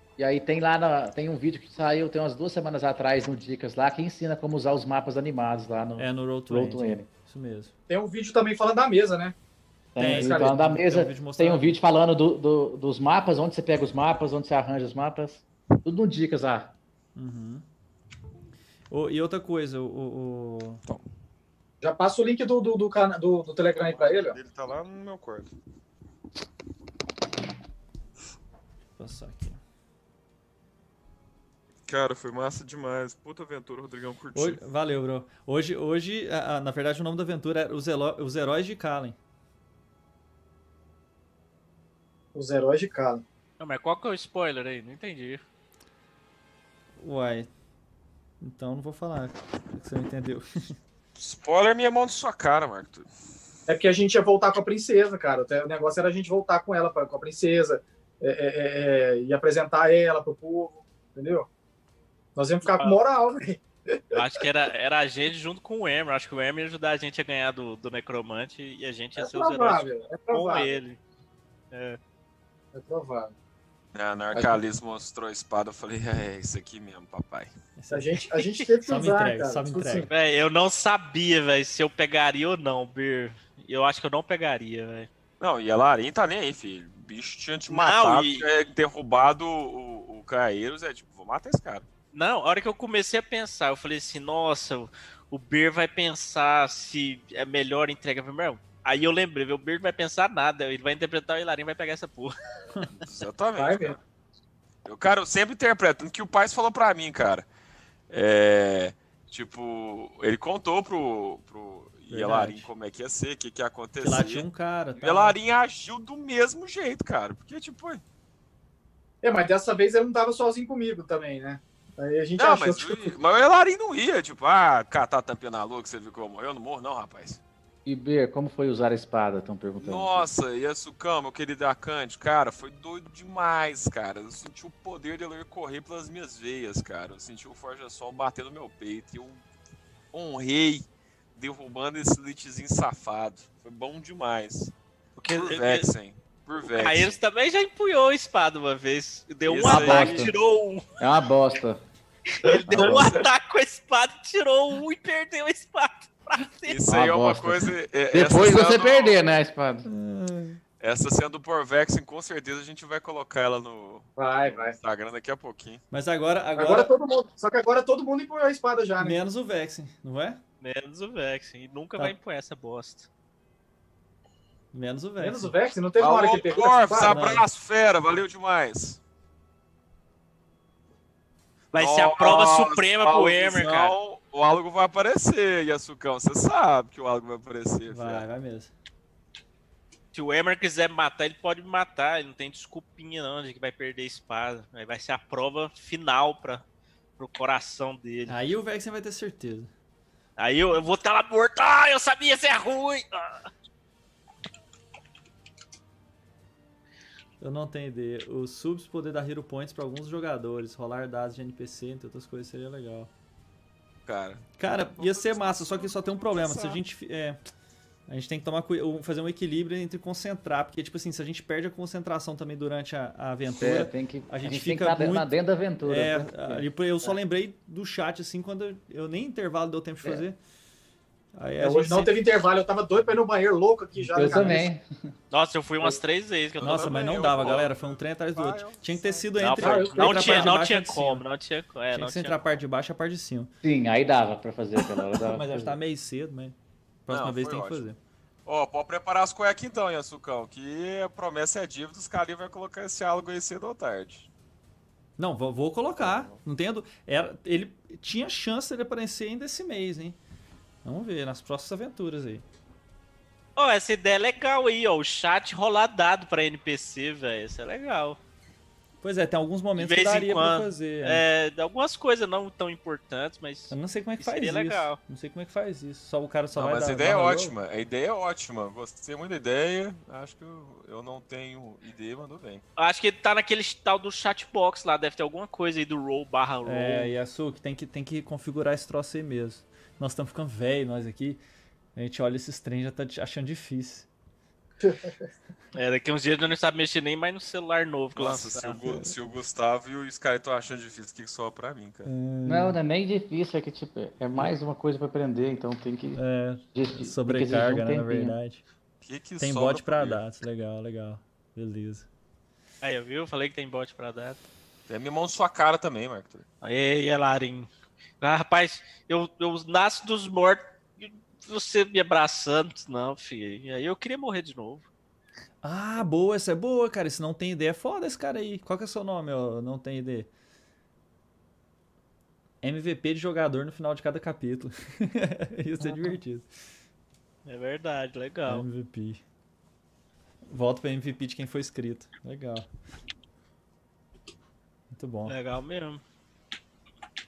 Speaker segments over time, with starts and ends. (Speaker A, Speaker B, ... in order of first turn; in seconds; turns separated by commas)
Speaker A: 0.2-7.1, Speaker B: 6.0-7.7, Speaker C: 7.9-9.3, Speaker A: 9.9-16.7, Speaker B: 10.0-11.7, Speaker C: 10.0-10.6, Speaker B: 17.1-17.6, Speaker B: 18.9-20.8, Speaker C: 21.8-24.4, Speaker D: 23.8-25.5, Speaker B: 29.0-29.6, Speaker D: 31.9-34.6, Speaker B: 34.3-39.1, Speaker C: 42.3-43.2, Speaker E: 43.6-45.4, Speaker B: 47.0-47.5, Speaker B: 48.4-50.8, Speaker D: 51.1-53.1, Speaker C: 53.7-61.5, Speaker C: 62.4-63.6, Speaker E: 62.7-63.0, Speaker E: 64.1-71.0, Speaker C: 69.2-70.8, Speaker E: 71.7-72.0, Speaker C: 72.7-73.3, Speaker D: 73.9-77.5, Speaker C: 74.3-74.6, Speaker B: 77.8-78.2, Speaker C: 77.9-80.1, Speaker B: 78.8-80.1, Speaker E: 80.0-85.1, Speaker D: 85.4-91.8, Speaker E: 87.7-88.5, Speaker E: 92.1-102.3, Speaker D: 102.9-104.0, Speaker C: 103.6-104.0, Speaker D: 104.8-107.5, Speaker D: 108.1-114.4, Speaker B: 112.1-112.7, Speaker B: 114.0-115.4, Speaker D: 115.0-118.0, Speaker C: 119.2-123.2, Speaker D: 122.3-127.4, Speaker A: 127.8-130.2, Speaker D: 129.8-139.4, Speaker D: 140.1-144.7, Speaker E: 145.2-145.9, Speaker D: 145.2-147.2, Speaker E: 146.6-150.8, Speaker D: 149.4-150.3, Speaker A: 149.6-150.3, Speaker A: 151.0-151.8, Speaker E: 152.4-156.8, Speaker D: 152.5-153.3, Speaker A: 152.7-153.0, Speaker D: 156.6-159.2, Speaker A: 156.9-159.9, Speaker B: 159.8-160.6, Speaker D: 160.8-165.8, Speaker C: 164.2-164.8, Speaker B: 165.9-166.9, Speaker C: 166.6-169.2, Speaker B: 169.0-170.4, Speaker E: 170.6-173.1, Speaker B: 174.7-175.5, Speaker C: 175.2-177.2, Speaker D: 176.0-179.0, Speaker B: 177.1-177.4, Speaker E: 181.7-184.0, Speaker D: 181.8-188.2, Speaker B: 187.9-188.7, Speaker E: 190.1-196.6, Speaker E: 197.2-198.4, Speaker B: 198.3-199.7, Speaker E: 200.4-203.5, Speaker B: 207.4-213.1, Speaker D: 214.0-216.8, Speaker B: 214.6-217.4, Speaker B: 218.1-230.4, Speaker A: 223.6-227.2, Speaker B: 231.3-232.1, Speaker C: 231.6-234.7, Speaker B: 234.1-234.7, Speaker A: 234.1-234.8, Speaker E: 235.3-237.6, Speaker D: 236.6-239.3, Speaker B: 236.6-241.2, Speaker E: 239.4-242.6, Speaker C: 239.5-240.6, Speaker B: 241.9-243.5, Speaker A: 243.6-245.8, Speaker B: 245.2-246.5, Speaker B: 247.1-248.0, Speaker D: 247.1-247.8, Speaker D: 248.4-254.3, Speaker B: 255.2-260.2, Speaker D: 256.0-256.4, Speaker B: 260.8-262.4, Speaker E: 263.6-268.2, Speaker B: 269.0-271.2, Speaker E: 269.8-275.0, Speaker B: 273.7-277.6, Speaker D: 276.5-282.6, Speaker E: 282.8-287.1, Speaker B: 286.6-291.4, Speaker B: 291.9-294.1, Speaker C: 294.8-295.1, Speaker E: 295.7-298.8, Speaker D: 298.1-302.1, Speaker B: 298.8-299.1, Speaker B: 302.1-302.8, Speaker A: 302.4-306.2, Speaker B: 306.1-308.6, Speaker A: 306.7-308.3, Speaker D: 309.0-310.2, Speaker B: 309.4-312.1, Speaker E: 312.8-314.4, Speaker D: 314.9-316.4, Speaker E: 316.6-317.7, Speaker E: 318.2-324.9, Speaker B: 325.6-330.3, Speaker B: 332.6-336.5, Speaker E: 337.4-338.6, Speaker B: 338.5-339.2, Speaker B: 340.5-342.7, Speaker B: 344.9-345.3, Speaker E: 345.3-346.0